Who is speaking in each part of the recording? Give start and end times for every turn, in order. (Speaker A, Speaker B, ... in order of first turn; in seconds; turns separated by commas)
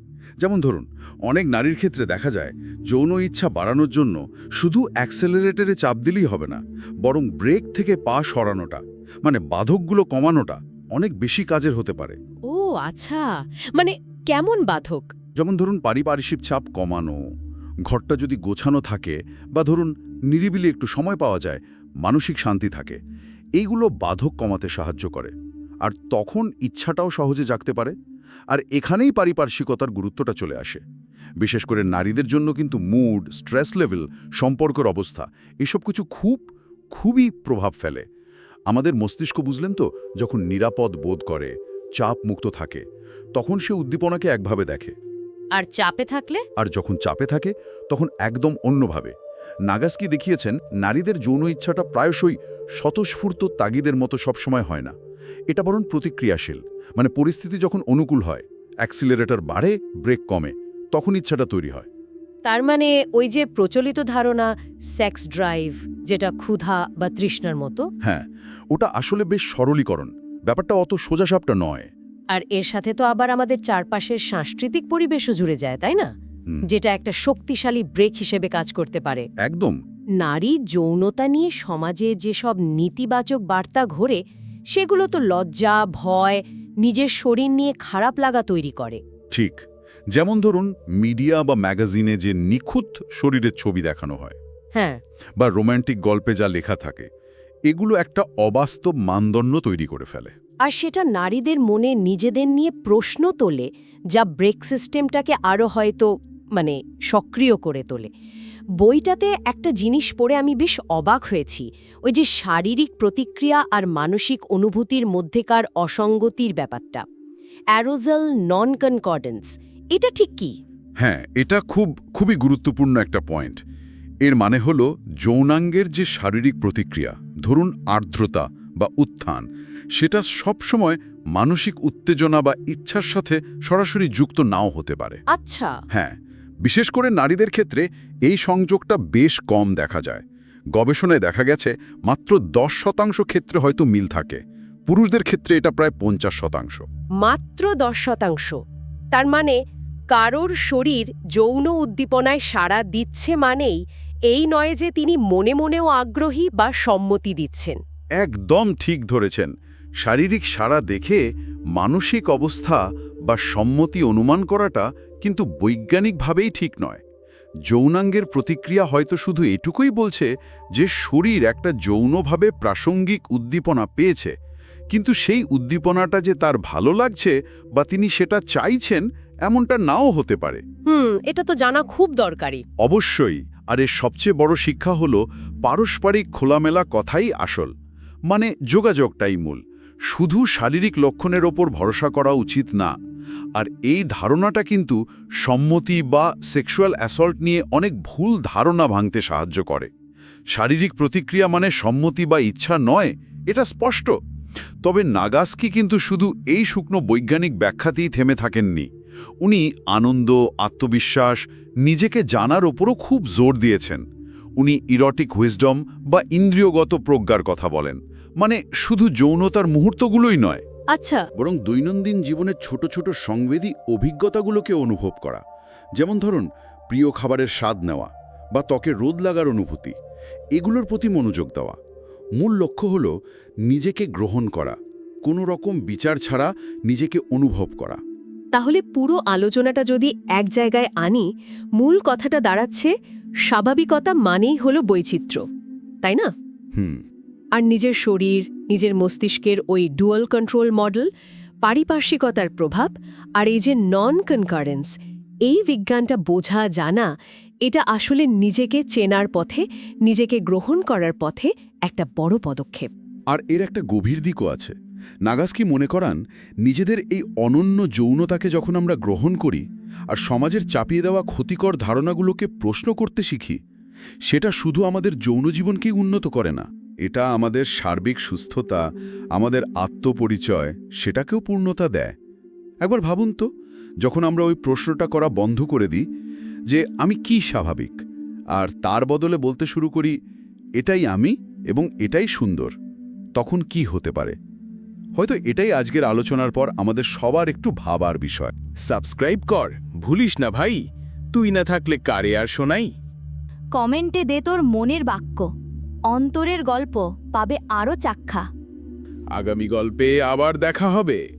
Speaker A: 0.4-12.2, Speaker B: 12.5-15.1, Speaker A: 15.3-17.2, Speaker A: 17.9-23.0, Speaker A: 23.6-27.9, Speaker A: 28.5-30.8, Speaker A: 31.4-38.0, Speaker A: 38.7-42.8, Speaker A: 43.3-45.0, Speaker B: 45.5-46.4, Speaker A: 46.6-49.1, Speaker A: 49.7-54.9, Speaker A: 55.5-61.9, Speaker B: 62.4-67.8, Speaker A: 68.0-71.9, Speaker B: 72.3-76.1, Speaker B: 76.7-79.3, Speaker A: 79.4-79.8, Speaker B: 80.2-89.0, Speaker A: 89.3-94.4, Speaker B: 94.7-95.0, Speaker A: 95.4-97.1, Speaker A: 97.7-100.3, Speaker B: 100.6-108.1, Speaker B: 108.8-117.0, Speaker B: 117.7-120.5, Speaker A: 121.0-123.6, Speaker A: 124.2-135.2, Speaker B: 135.3-135.8, Speaker A: 135.9-146.9, Speaker B: 147.2-148.6, Speaker B: 149.1-149.6, Speaker B: 150.1-157.8, Speaker A: 158.2-167.0, Speaker A: 167.7-174.3, Speaker A: 174.9-180.6, Speaker B: 180.8-182.6, Speaker A: 182.8-187.7, Speaker A: 188.3-192.9, Speaker A: 193.5-199.9, Speaker A: 200.5-204.1, Speaker A: 204.8-208.9, Speaker A: 209.4-214.0, Speaker A: 214.6-220.6, Speaker B: 220.9-221.3, Speaker A: 221.3-225.4, Speaker A: 225.9-229.9, Speaker A: 230.5-231.8, Speaker A: 232.4-233.1, Speaker A: 233.7-238.0, Speaker B: 238.5-242.9, Speaker B: 243.5-245.4, Speaker B: 246.0-246.3, Speaker A: 246.7-247.0, Speaker B: 247.5-251.1, Speaker B: 251.6-254.9, Speaker B: 255.4-257.1, Speaker B: 257.6-262.9, Speaker A: 263.3-273.6, Speaker A: 274.3-278.8, Speaker A: 279.3-282.1, Speaker A: 282.8-283.4, Speaker A: 284.0-286.0, Speaker A: 286.7-288.0, Speaker A: 288.5-290.1, Speaker A: 290.8-292.7, Speaker A: 293.3-294.4, Speaker A: 295.1-298.5, Speaker C: 298.8-302.9, Speaker D: 303.7-305.5, Speaker D: 306.1-308.4, Speaker C: 309.3-311.2